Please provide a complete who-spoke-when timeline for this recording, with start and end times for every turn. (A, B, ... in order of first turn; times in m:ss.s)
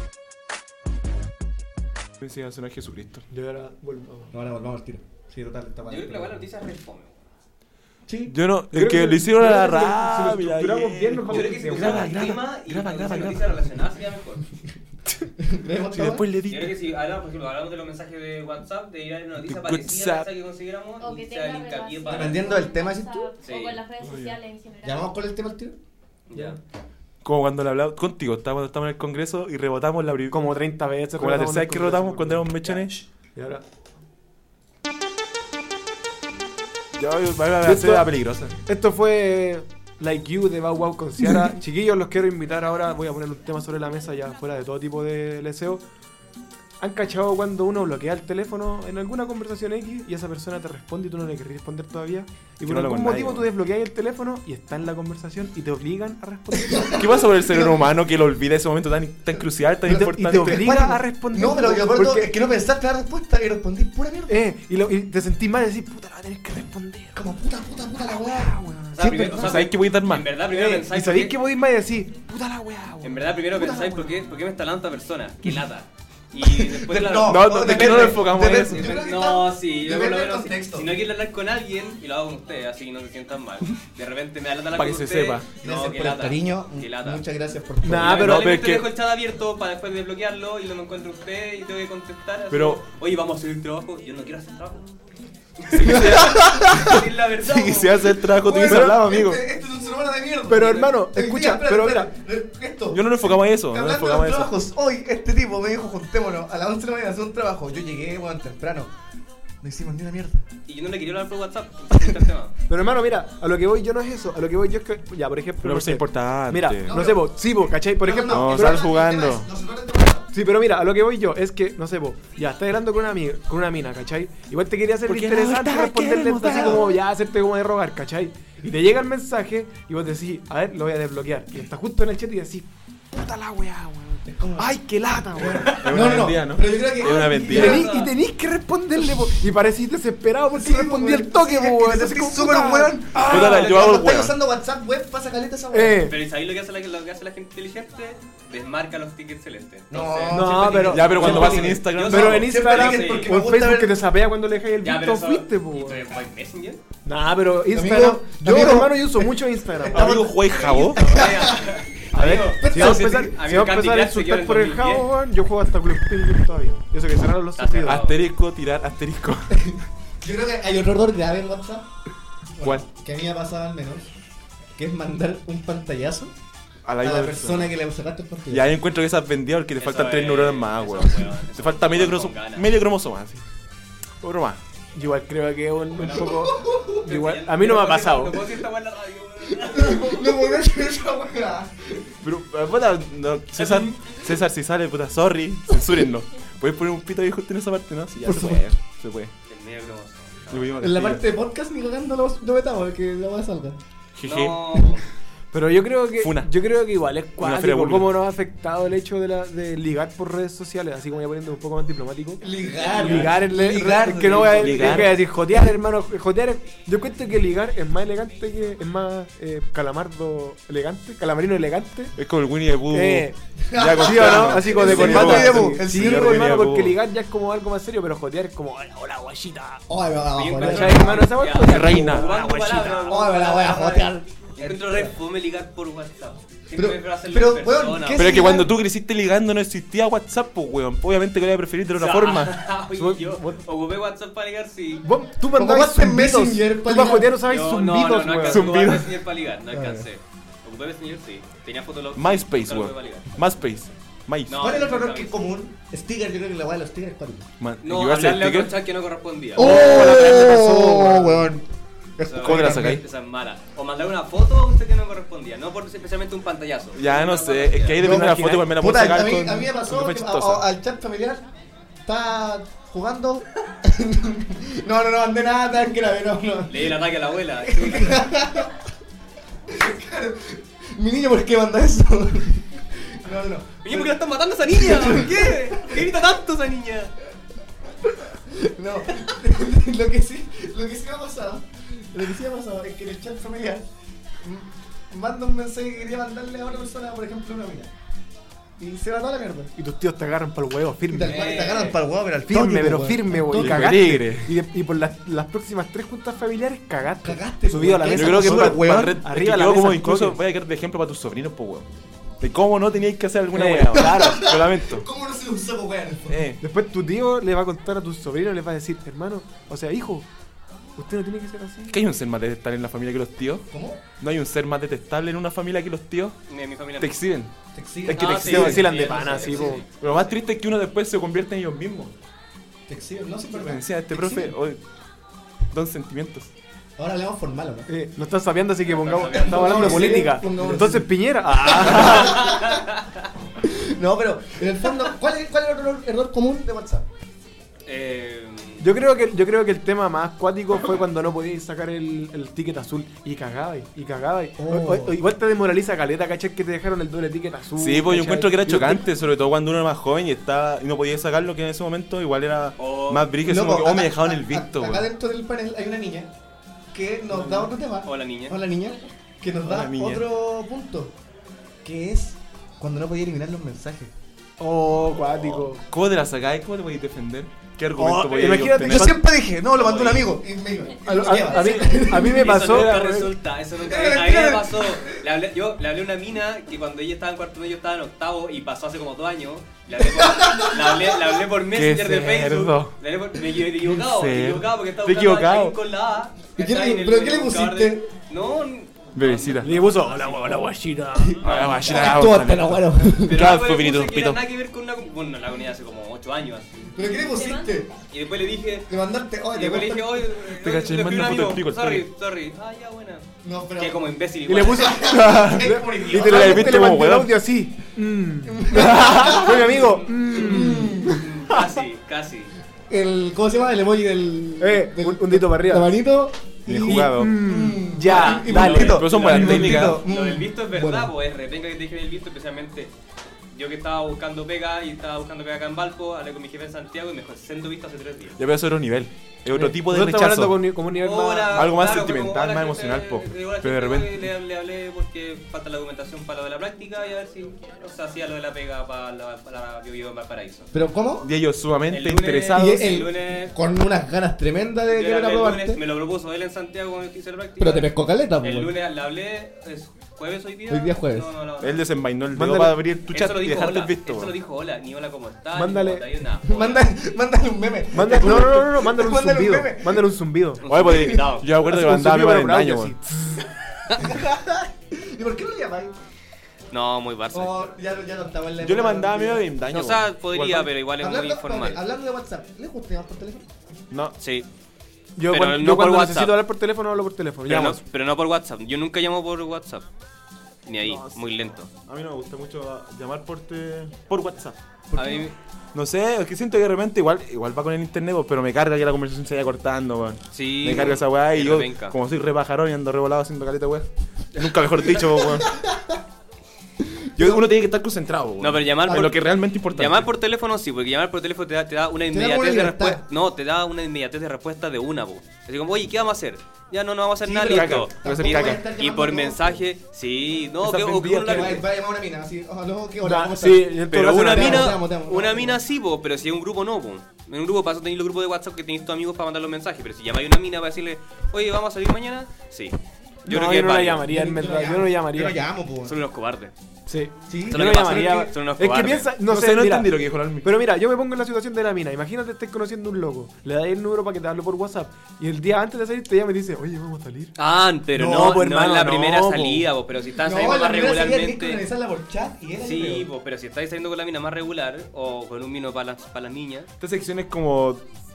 0:02.2-0:03.2 A
0:03.3-0:04.3 B
0:04.3-0:06.4 C
0:05.8-0:07.2 D
0:08.1-0:08.3 C
0:08.3-0:13.6 A
0:08.7-0:12.1 B
0:11.3-0:14.4 D
0:15.4-0:16.3 C
0:15.9-0:16.7 A
0:16.5-0:22.5 D
0:19.4-0:20.3 A
0:21.0-0:25.1 E
0:22.0-0:23.3 C
0:23.4-0:23.8 D
0:24.0-0:24.4 A
0:24.8-0:25.8 C
0:26.3-0:26.6 D
0:27.2-0:30.4 A
0:30.3-0:32.5 B
0:31.2-0:33.0 A
0:33.3-0:33.6 B
0:36.9-0:38.6 A
0:37.6-0:45.8 B
0:46.8-0:57.0 B
0:52.6-0:53.5 A
0:56.5-0:57.8 C
0:57.0-1:00.7 A
0:59.8-1:04.4 C
0:59.9-1:02.3 B
1:04.3-1:07.2 B
1:07.1-1:09.2 C
1:08.0-1:09.5 B
1:08.9-1:11.4 D
1:09.2-1:10.3 A
1:10.5-1:14.2 B
1:13.0-1:27.2 D
1:16.4-1:20.9 C
1:17.2-1:18.9 A
1:24.7-1:25.5 A
1:25.6-1:28.3 C
1:27.8-1:28.5 B
1:28.0-1:28.9 A
1:28.0-1:34.9 D
1:32.5-1:32.8 A
1:35.6-1:38.1 D
1:35.7-1:39.4 A
1:35.7-1:37.0 C
1:38.2-1:48.9 C
1:38.6-1:39.0 B
1:40.5-1:42.1 B
1:42.9-1:44.5 A
1:49.6-1:50.4 C
1:50.7-1:52.5 D
1:52.7-1:58.8 B
1:55.6-1:56.9 A
1:56.8-1:57.3 C
1:58.0-2:00.3 C
1:58.3-1:59.5 A
2:00.3-2:15.8 B
2:05.0-2:06.9 A
2:06.5-2:06.9 C
2:14.2-2:14.7 C
2:15.4-2:17.9 C
2:15.8-2:17.8 A
2:17.0-2:18.1 D
2:17.4-2:23.6 B
2:20.5-2:26.1 C
2:23.2-2:24.3 A
2:25.7-2:26.2 B
2:26.1-2:33.3 D
2:29.9-2:34.0 C
2:30.3-2:36.0 B
2:30.8-2:32.5 A
2:34.8-2:36.8 D
2:37.0-2:40.2 B
2:37.7-2:43.3 C
2:39.9-2:41.1 A
2:40.4-2:45.1 D
2:42.1-2:48.0 B
2:47.6-2:48.2 D
2:47.8-2:49.7 A
2:49.5-2:51.9 C
2:52.5-2:54.1 C
2:54.8-2:56.3 C
2:56.8-2:57.7 A
2:57.0-2:58.7 C
2:58.5-3:03.4 A
2:59.8-3:02.7 D
3:04.2-3:04.6 A
3:04.9-3:08.4 B
3:05.9-3:10.5 D
3:06.3-3:07.1 C
3:09.6-3:12.1 C
3:12.2-3:19.3 A
3:13.5-3:14.2 D
3:18.2-3:18.7 C
3:19.5-3:20.7 D
3:20.5-3:21.2 A
3:20.8-3:23.8 C
3:24.1-3:24.9 A
3:24.2-3:25.0 D
3:25.5-3:42.1 B
3:26.2-3:26.5 A
3:27.4-3:28.2 A
3:32.4-3:35.1 C
3:34.4-3:35.2 A
3:42.2-3:47.0 A
3:42.9-3:43.4 B
3:43.7-3:46.5 C
3:44.0-3:49.8 B
3:49.9-3:51.3 C
3:50.3-3:58.5 D
3:50.6-3:53.2 B
3:51.6-3:52.4 A
3:53.1-3:55.1 C
3:56.7-3:58.7 C
3:58.2-4:02.7 A
4:01.9-4:05.0 D
4:02.9-4:03.6 B
4:05.0-4:08.7 B
4:05.5-4:07.3 C
4:07.4-4:13.3 D
4:08.4-4:09.2 A
4:09.7-4:10.1 C
4:12.1-4:14.7 A
4:14.5-4:15.5 D
4:14.5-4:17.5 C
4:17.6-4:18.7 A
4:17.8-4:20.4 D
4:19.6-4:21.6 C
4:19.6-4:21.5 B
4:22.2-4:23.0 C
4:22.2-4:28.0 D
4:22.4-4:23.0 A
4:26.9-4:30.6 A
4:28.0-4:28.7 B
4:28.0-4:31.5 C
4:32.0-4:37.0 C
4:36.7-4:38.4 D
4:37.6-4:38.7 C
4:39.7-4:46.0 C
4:43.8-4:47.1 D
4:48.5-4:53.8 C
4:54.4-4:57.9 C
4:58.8-4:59.7 C
4:59.8-5:01.5 B
5:01.1-5:04.0 C
5:01.2-5:02.0 D
5:02.5-5:10.4 B
5:03.5-5:04.5 A
5:07.2-5:09.2 C
5:08.1-5:11.9 A
5:12.4-5:15.1 A
5:13.5-5:14.4 B
5:13.9-5:16.4 C
5:16.3-5:16.6 A
5:16.6-5:20.3 B
5:21.0-5:22.0 B
5:21.9-5:26.4 A
5:23.7-5:24.0 C
5:26.5-5:27.2 D
5:27.0-5:27.5 A
5:27.7-5:29.8 C
5:28.0-5:28.9 A
5:28.1-5:29.9 D
5:28.2-5:29.8 B
5:30.0-5:32.1 A
5:32.9-5:34.5 C
5:33.5-5:34.8 A
5:35.7-5:36.5 A
5:37.0-5:37.9 C
5:37.9-5:42.5 B
5:38.8-5:40.2 D
5:39.3-5:42.8 C
5:42.1-5:43.2 D
5:43.6-5:47.0 C
5:47.8-5:48.8 D
5:48.8-5:59.0 B
5:54.6-5:55.2 C
5:57.8-6:05.1 A
6:02.8-6:03.3 D
6:03.4-6:06.3 C
6:06.9-6:11.1 C
6:07.3-6:07.7 B
6:08.0-6:08.6 D
6:09.6-6:10.2 A
6:11.8-6:14.1 C
6:14.6-6:15.8 B
6:15.2-6:19.1 A
6:18.0-6:19.2 B
6:18.8-6:22.6 C
6:19.7-6:20.3 D
6:21.0-6:23.3 B
6:22.1-6:40.7 D
6:23.8-6:25.2 C
6:30.0-6:31.2 C
6:31.6-6:32.9 A
6:33.8-6:35.8 A
6:36.6-6:38.1 C
6:39.1-6:39.7 A
6:39.6-6:41.4 B
6:41.2-6:43.6 C
6:41.4-6:42.2 D
6:41.4-6:44.4 A
6:43.2-6:47.2 D
6:46.9-6:47.9 C
6:47.2-6:47.7 E
6:48.1-6:48.9 D
6:48.9-6:50.3 C
6:49.5-6:55.1 D
6:50.5-6:52.0 A
6:53.4-6:54.1 C
6:54.5-7:01.2 B
6:54.7-6:56.9 C
6:55.1-6:57.4 A
6:58.5-7:01.2 C
7:01.1-7:02.5 D
7:02.9-7:11.1 C
7:04.6-7:06.0 B
7:06.7-7:07.4 A
7:06.8-7:09.8 B
7:08.0-7:12.9 D
7:08.6-7:10.0 A
7:13.5-7:18.4 D
7:18.4-7:20.7 A
7:19.5-7:21.6 B
7:21.0-7:30.7 D
7:21.5-7:24.3 A
7:30.7-7:31.3 C
7:31.2-7:33.0 A
7:31.9-7:33.6 D
7:32.5-7:35.8 C
7:34.9-7:37.9 D
7:37.6-7:38.7 C
7:38.4-7:41.8 D
7:40.7-7:41.3 C
7:41.6-7:44.3 A
7:42.3-7:42.8 B
7:43.1-7:46.9 D
7:45.5-7:46.1 B
7:46.4-7:50.1 C
7:47.9-7:50.6 B
7:50.6-7:51.5 D
7:50.6-7:52.9 A
7:50.8-7:51.3 C
7:51.6-7:53.4 B
7:53.9-7:55.9 C
7:56.7-7:57.8 D
7:57.3-7:59.4 C
7:58.6-8:00.7 A
7:59.7-8:01.8 D
8:01.0-8:03.5 C
8:03.9-8:04.2 A
8:04.2-8:04.5 D
8:05.2-8:07.8 B
8:05.3-8:06.4 D
8:07.4-8:09.9 D
8:10.6-8:11.7 D
8:10.8-8:14.6 A
8:14.9-8:15.3 C
8:14.9-8:15.3 D
8:15.7-8:25.6 A
8:20.3-8:22.0 D
8:25.3-8:25.8 C
8:27.2-8:30.1 A
8:27.2-8:27.4 C
8:28.4-8:41.6 D
8:28.9-8:29.1 C
8:32.1-8:33.0 C
8:37.2-8:39.6 C
8:37.4-8:38.6 A
8:40.7-8:41.4 A
8:41.2-8:45.6 C
8:43.0-8:44.7 B
8:43.9-8:54.1 D
8:53.2-8:55.4 B
8:54.1-8:56.0 C
8:55.8-8:56.5 D
8:56.9-8:59.9 B
8:57.3-8:58.3 C
8:57.5-8:59.1 D
8:59.2-9:00.5 A
9:00.4-9:07.3 B
9:07.4-9:11.6 D
9:07.9-9:09.7 B
9:10.2-9:13.1 C
9:12.6-9:16.7 D
9:16.8-9:17.8 A